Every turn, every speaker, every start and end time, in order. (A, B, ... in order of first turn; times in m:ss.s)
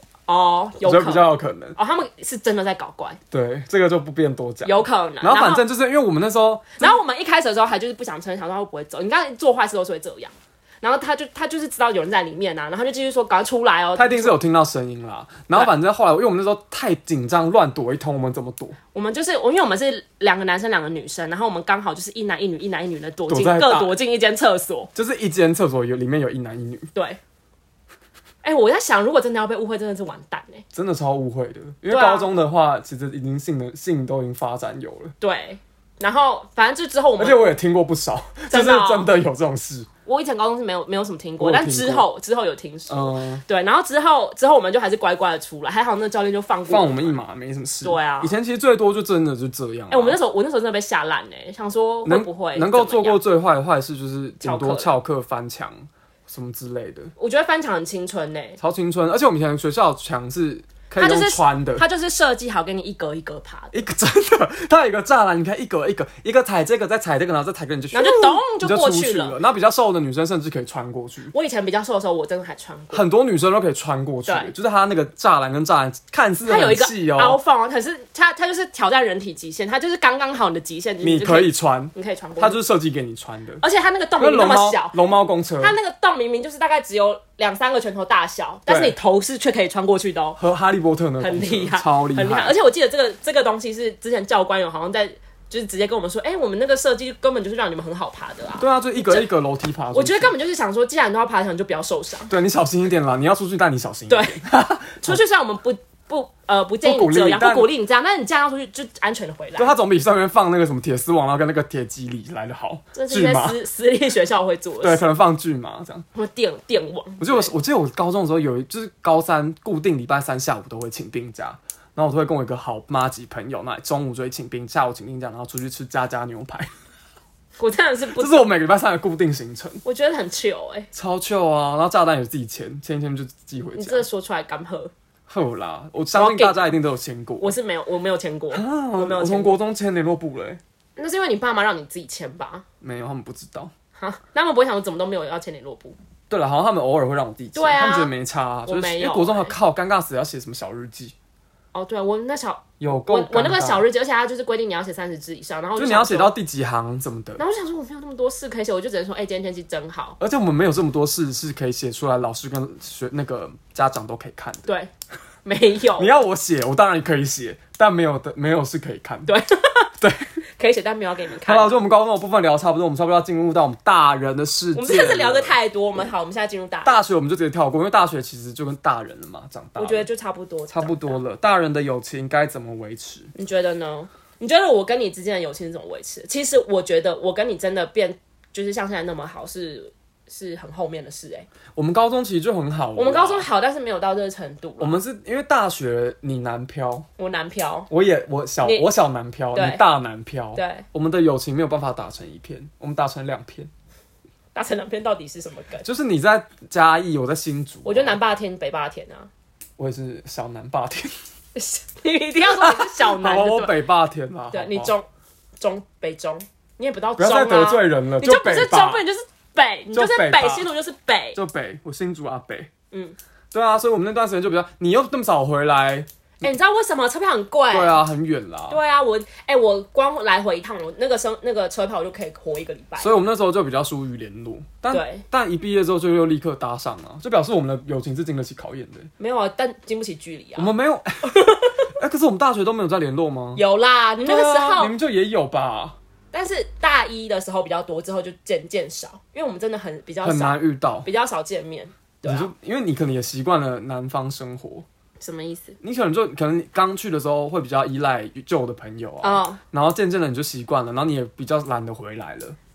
0:00.3-0:03.2 A
0:00.8-0:01.8 B
0:03.3-0:07.0 B
0:04.6-0:05.6 A
0:06.8-0:14.4 A
0:14.0-0:18.8 B
0:18.9-0:24.9 A
0:23.3-0:24.0 B
0:24.9-0:26.9 B
0:28.4-0:30.6 A
0:30.7-0:35.1 B
0:31.9-0:32.3 A
0:35.2-0:37.5 A
0:37.2-0:39.9 B
0:38.5-0:39.1 A
0:40.0-0:47.2 A
0:41.4-0:42.0 B
0:42.9-0:43.4 B
0:46.7-0:50.2 B
0:47.8-0:48.3 A
0:49.9-0:53.2 A
0:52.0-0:57.1 B
0:54.4-0:54.9 A
0:57.2-0:58.6 A
0:58.6-1:01.8 B
1:01.0-1:03.8 A
1:03.7-1:11.3 B
1:07.9-1:09.4 A
1:11.3-1:13.1 A
1:12.9-1:17.4 B
1:14.3-1:14.5 A
1:16.4-1:22.6 A
1:21.0-1:23.6 B
1:23.6-1:25.0 A
1:24.2-1:25.8 B
1:25.6-1:30.4 A
1:28.7-1:29.0 B
1:30.4-1:32.5 B
1:31.2-1:39.3 A
1:38.6-1:40.3 B
1:39.9-1:42.3 A
1:42.3-1:45.2 B
1:44.1-1:44.4 A
1:45.0-1:49.7 A
1:46.8-1:47.7 B
1:49.6-1:53.6 B
1:52.9-1:55.0 A
1:54.8-1:56.0 B
1:56.1-1:57.5 A
1:57.2-2:06.7 B
2:07.6-2:08.5 A
2:08.1-2:09.8 B
2:09.8-2:10.9 A
2:10.9-2:14.1 B
2:13.7-2:14.9 A
2:15.3-2:17.5 B
2:16.1-2:16.7 A
2:17.4-2:19.6 A
2:18.5-2:20.6 B
2:21.0-2:22.6 A
2:22.8-2:23.7 B
2:24.0-2:26.0 A
2:26.3-2:31.1 B
2:27.5-2:28.1 A
2:28.6-2:29.5 A
2:31.7-2:36.3 A
2:32.8-2:33.8 B
2:35.8-2:37.4 B
2:37.4-2:40.2 A
2:40.2-2:44.7 B
2:45.4-2:46.1 A
2:46.0-2:49.3 B
2:49.2-2:49.9 A
2:50.0-2:50.3 B
2:50.6-2:51.8 A
2:51.4-2:55.5 B
2:54.7-2:57.0 A
2:56.8-3:00.1 B
2:59.8-3:01.2 A
3:00.7-3:03.3 B
3:03.3-3:11.5 A
3:11.7-3:13.5 B
3:13.0-3:15.0 A
3:14.8-3:17.1 B
3:17.2-3:17.9 A
3:17.9-3:23.7 B
3:19.5-3:19.8 A
3:20.5-3:20.8 A
3:24.5-3:25.8 A
3:25.8-3:28.2 B
3:27.8-3:29.3 A
3:29.8-3:31.1 B
3:31.5-3:33.7 A
3:32.5-3:34.9 B
3:34.5-3:35.1 A
3:35.6-3:41.4 A
3:37.2-3:39.0 B
3:39.9-3:40.7 B
3:41.3-3:42.7 B
3:43.5-3:46.1 B
3:46.4-3:48.0 A
3:47.7-3:48.8 B
3:48.7-3:53.2 A
3:53.0-3:59.1 B
3:54.9-3:55.2 A
3:59.2-4:00.7 A
4:00.6-4:01.4 B
4:01.2-4:01.8 A
4:02.0-4:03.6 B
4:03.5-4:04.9 A
4:04.2-4:06.0 B
4:06.3-4:12.5 A
4:10.2-4:11.1 B
4:12.2-4:14.8 B
4:15.2-4:15.8 A
4:15.8-4:22.6 B
4:19.2-4:19.6 A